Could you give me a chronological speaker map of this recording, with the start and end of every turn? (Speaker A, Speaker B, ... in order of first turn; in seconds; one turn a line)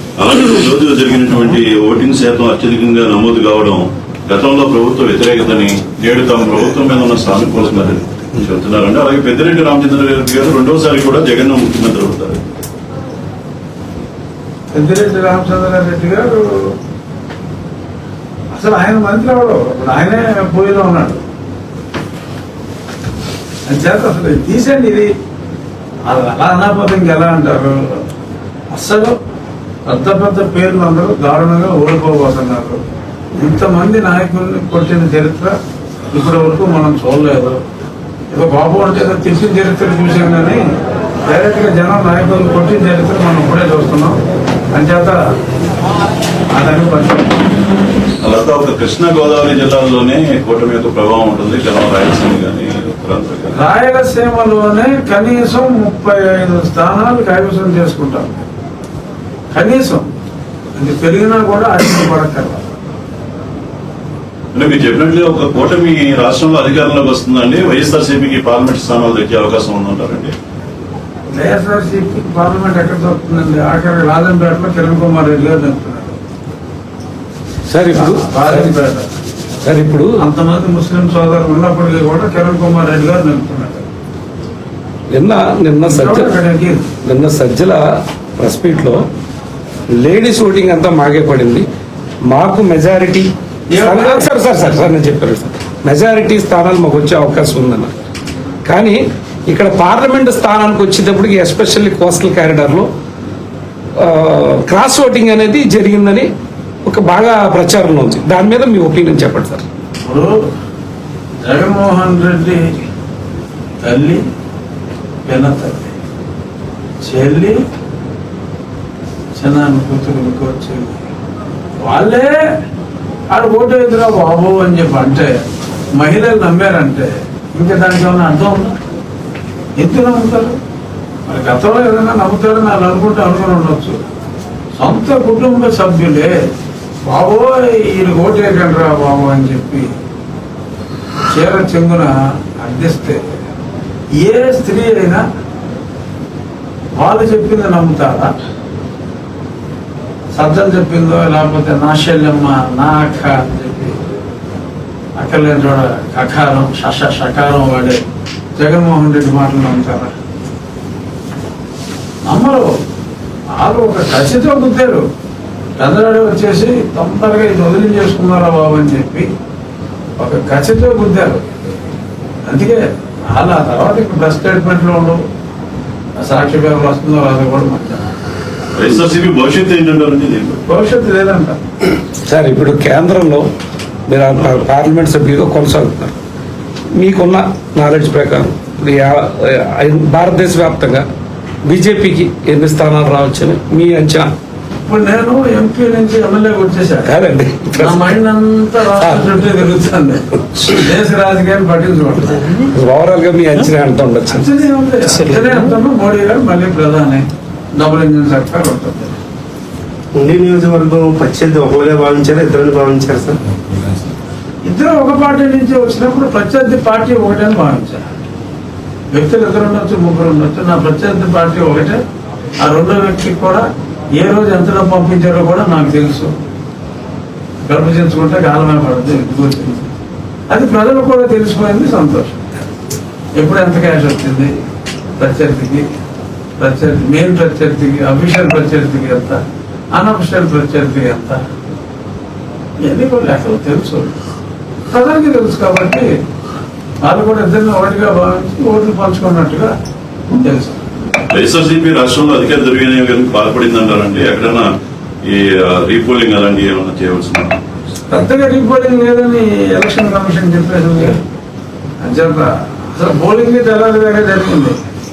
Speaker A: 0.2-12.4
Speaker B: 14.7-16.7
Speaker B: 18.5-21.2
Speaker B: 23.7-25.1
Speaker B: 26.1-28.0
Speaker B: 28.7-29.1
Speaker B: 29.9-32.8
Speaker B: 33.3-35.5
Speaker B: 36.1-37.6
Speaker B: 38.3-40.6
Speaker B: 41.2-44.2
Speaker B: 44.7-45.2
Speaker B: 46.5-47.3
Speaker A: 48.2-53.5
Speaker B: 53.5-58.3
Speaker B: 59.5-60.0
Speaker B: 60.8-62.6
Speaker A: 64.5-70.3
Speaker B: 71.3-76.2
Speaker C: 77.7-78.7
Speaker B: 77.9-79.0
Speaker C: 79.6-80.2
Speaker B: 80.2-83.8
Speaker C: 85.1-86.3
Speaker B: 85.8-86.8
Speaker C: 87.0-87.8
Speaker C: 88.4-89.0
Speaker C: 90.0-91.7
Speaker C: 92.3-97.9
Speaker B: 93.7-94.3
Speaker C: 98.7-102.9
Speaker C: 104.0-106.3
Speaker C: 106.8-109.6
Speaker B: 110.0-110.3
Speaker B: 111.4-112.6
Speaker B: 113.8-114.2
Speaker B: 115.2-115.9
Speaker B: 117.0-117.6
Speaker B: 119.4-121.0
Speaker B: 121.8-122.4
Speaker B: 123.3-128.7
Speaker B: 129.8-130.6
Speaker B: 131.2-133.9
Speaker B: 134.8-136.4
Speaker B: 137.0-139.9
Speaker B: 141.3-143.2
Speaker B: 144.2-145.2
Speaker B: 146.9-148.3
Speaker B: 150.3-154.0
Speaker B: 155.2-158.0
Speaker B: 158.6-160.1
Speaker B: 162.2-162.7
Speaker B: 163.6-165.1
Speaker B: 165.8-169.3
Speaker B: 170.2-171.4
Speaker B: 172.4-175.2
Speaker B: 176.2-178.1
Speaker A: 178.8-180.6
Speaker B: 180.7-181.6
Speaker C: 182.2-183.5
Speaker C: 184.1-186.1
Speaker C: 186.9-191.0
Speaker C: 191.7-194.3
Speaker B: 194.8-197.1
Speaker C: 197.1-198.2
Speaker B: 197.8-202.5
Speaker C: 198.9-199.5
Speaker C: 202.6-204.5
Speaker B: 204.3-209.2
Speaker D: 210.1-213.8
Speaker B: 214.7-218.0
Speaker B: 219.1-222.0
Speaker B: 222.6-226.3
Speaker B: 227.7-229.9
Speaker B: 230.5-232.4
Speaker B: 233.3-234.5
Speaker B: 235.2-235.8
Speaker B: 236.6-239.4
Speaker B: 239.9-241.4
Speaker B: 242.8-244.2
Speaker B: 244.9-246.1
Speaker B: 247.0-249.7
Speaker B: 250.3-250.8
Speaker A: 251.3-254.7
Speaker A: 255.2-257.6
Speaker B: 258.1-261.2
Speaker B: 262.0-264.8